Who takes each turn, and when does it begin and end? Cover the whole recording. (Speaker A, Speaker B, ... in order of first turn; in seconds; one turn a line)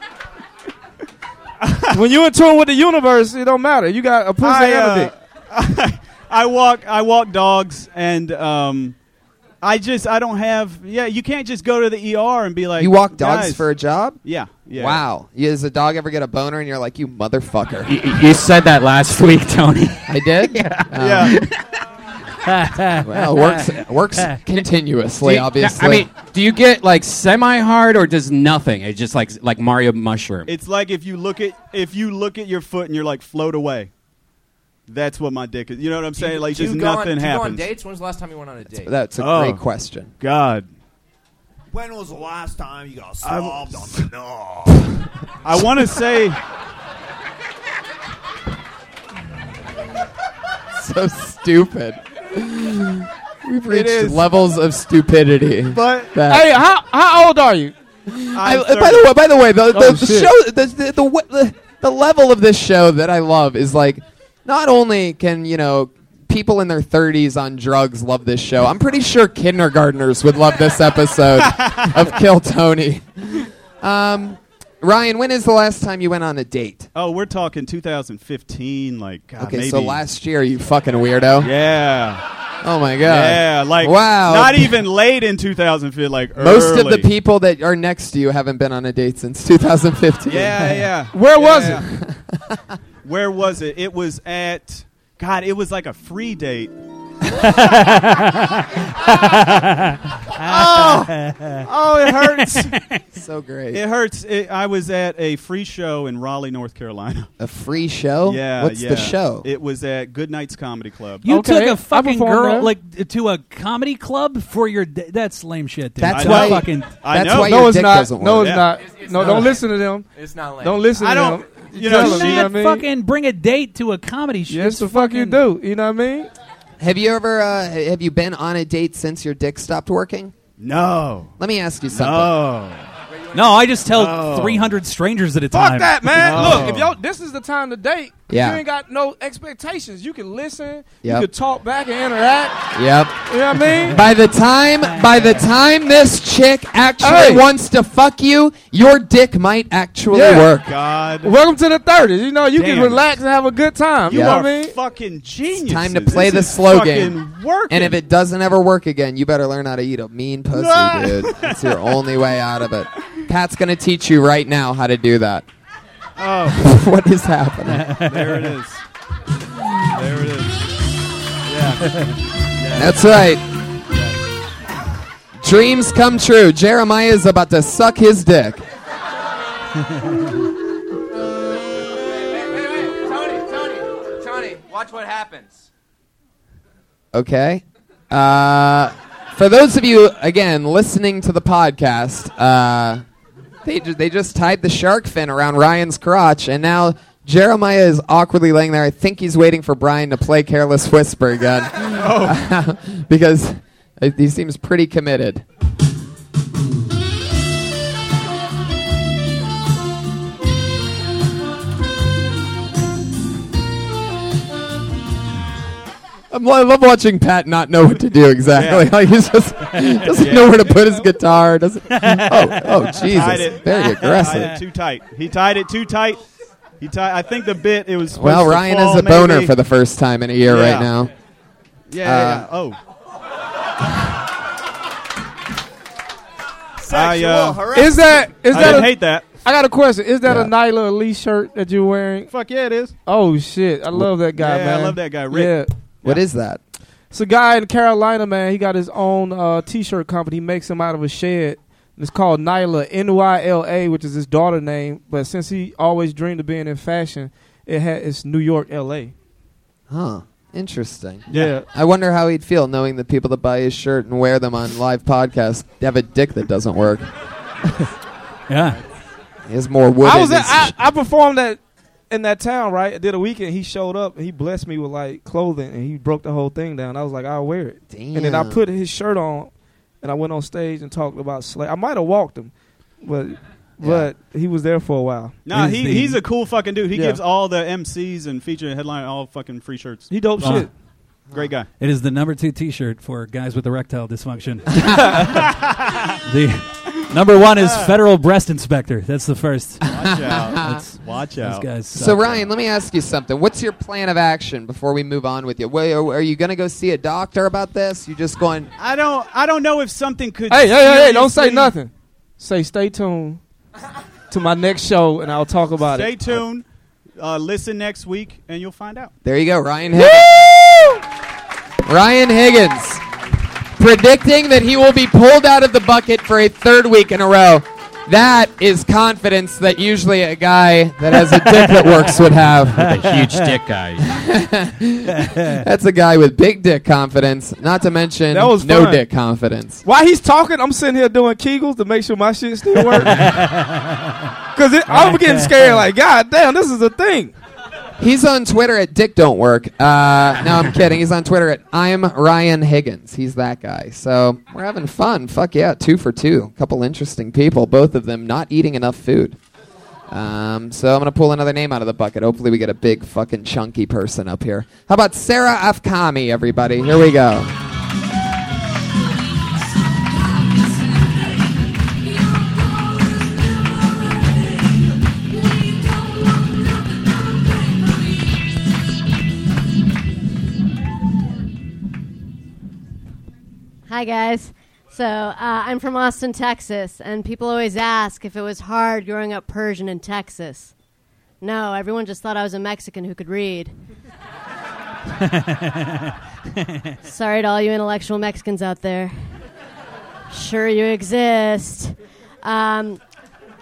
Speaker A: 1.6-2.0
Speaker B: 1.9-5.1
Speaker A: 4.4-8.9
Speaker A: 9.6-13.6
Speaker C: 12.8-14.2
Speaker A: 14.2-15.0
Speaker C: 14.7-17.9
Speaker D: 17.9-21.5
Speaker C: 20.1-21.4
Speaker A: 21.0-21.3
Speaker E: 22.4-23.7
Speaker C: 22.9-26.1
Speaker D: 25.2-30.5
Speaker A: 30.4-33.9
Speaker A: 34.9-37.6
Speaker F: 36.2-38.9
Speaker C: 38.8-40.1
Speaker A: 39.2-39.6
Speaker A: 40.2-40.7
Speaker G: 41.7-44.8
Speaker A: 43.2-44.1
Speaker A: 45.4-46.4
Speaker C: 50.7-56.5
Speaker A: 53.7-54.2
Speaker A: 55.7-56.1
Speaker B: 56.2-57.7
Speaker C: 58.1-76.9
Speaker A: 58.4-59.0
Speaker B: 59.7-60.3
Speaker A: 71.4-72.1
Speaker A: 77.0-80.0
Speaker C: 79.4-81.5
Speaker A: 81.4-82.2
Speaker C: 82.6-84.8
Speaker A: 83.0-87.1
Speaker C: 86.4-90.5
Speaker A: 90.3-91.8
Speaker B: 91.1-91.8
Speaker C: 91.8-92.5
Speaker A: 93.0-96.7
Speaker E: 97.4-103.0
Speaker A: 100.4-102.7
Speaker C: 103.1-103.8
Speaker A: 103.7-107.3
Speaker C: 107.4-109.5
Speaker A: 108.2-111.3
Speaker E: 111.2-117.0
Speaker B: 111.3-112.7
Speaker C: 116.0-118.6
Speaker A: 116.1-117.6
Speaker B: 117.4-120.1
Speaker A: 118.3-118.7
Speaker F: 118.8-121.0
Speaker B: 120.6-122.8
Speaker A: 121.0-122.6
Speaker E: 121.8-125.4
Speaker B: 124.5-126.3
Speaker C: 126.8-130.3
Speaker A: 130.6-131.3
Speaker C: 131.4-132.4
Speaker A: 131.9-132.8
Speaker E: 133.3-136.6
Speaker A: 134.0-134.6
Speaker B: 135.5-142.6
Speaker A: 136.1-136.9
Speaker C: 138.3-138.6
Speaker C: 142.7-143.2
Speaker B: 143.3-144.0
Speaker C: 143.9-150.7
Speaker E: 144.9-145.3
Speaker B: 147.0-147.4
Speaker B: 150.1-150.5
Speaker A: 150.6-151.3
Speaker B: 151.2-154.8
Speaker A: 152.5-153.2
Speaker C: 154.1-154.4
Speaker A: 154.1-158.0
Speaker C: 155.5-165.4
Speaker A: 160.5-161.8
Speaker A: 166.2-166.6
Speaker C: 166.5-167.9
Speaker E: 167.7-168.5
Speaker A: 168.1-168.8
Speaker A: 169.9-170.6
Speaker A: 171.4-172.0
Speaker A: 172.6-173.0
Speaker C: 172.7-173.4
Speaker A: 173.9-174.2
Speaker C: 175.4-178.6
Speaker F: 182.2-185.6
Speaker C: 187.1-193.0
Speaker C: 193.6-205.4
Speaker A: 201.9-202.4
Speaker C: 216.3-224.6
Speaker A: 218.5-218.9
Speaker A: 220.1-220.8
Speaker E: 221.9-223.3
Speaker A: 223.0-226.2
Speaker E: 224.0-224.6
Speaker A: 226.8-229.5
Speaker C: 228.1-231.1
Speaker A: 230.4-230.9
Speaker A: 231.9-232.8
Speaker C: 232.0-232.5
Speaker G: 236.8-238.8
Speaker A: 236.9-237.7
Speaker B: 237.7-242.3
Speaker A: 238.5-239.3
Speaker C: 240.2-240.5
Speaker A: 242.3-242.9
Speaker B: 243.1-245.7
Speaker A: 244.3-246.2
Speaker C: 246.0-246.6
Speaker B: 247.1-259.1
Speaker C: 259.9-267.1
Speaker A: 261.3-261.6
Speaker B: 261.3-261.7
Speaker E: 268.5-268.8
Speaker C: 269.4-270.7
Speaker B: 270.0-285.4
Speaker C: 277.9-278.6
Speaker C: 283.8-284.1
Speaker A: 285.4-290.6
Speaker E: 285.5-286.2
Speaker B: 286.9-287.2
Speaker B: 290.1-290.7
Speaker E: 290.4-290.7
Speaker A: 291.3-291.7
Speaker E: 291.8-295.4
Speaker E: 296.3-299.9
Speaker A: 297.6-297.9
Speaker C: 299.8-300.8
Speaker A: 299.9-301.7
Speaker E: 300.6-302.4
Speaker C: 301.9-308.7
Speaker A: 308.8-311.7
Speaker B: 310.5-313.4
Speaker B: 314.3-316.3
Speaker A: 315.8-316.6
Speaker A: 317.2-319.1
Speaker C: 319.2-320.7
Speaker C: 321.9-323.0
Speaker C: 323.8-332.9
Speaker E: 331.4-332.0
Speaker D: 332.7-334.1
Speaker E: 332.8-333.5
Speaker C: 334.0-339.8
Speaker E: 335.2-335.6
Speaker B: 338.3-339.0
Speaker B: 339.8-343.3
Speaker E: 342.9-344.1
Speaker B: 344.6-347.4
Speaker E: 344.9-345.7
Speaker C: 348.0-359.4
Speaker C: 360.1-367.5
Speaker H: 383.9-390.7
Speaker H: 391.4-393.7
Speaker E: 395.2-396.9
Speaker H: 397.0-399.1
Speaker H: 400.3-403.0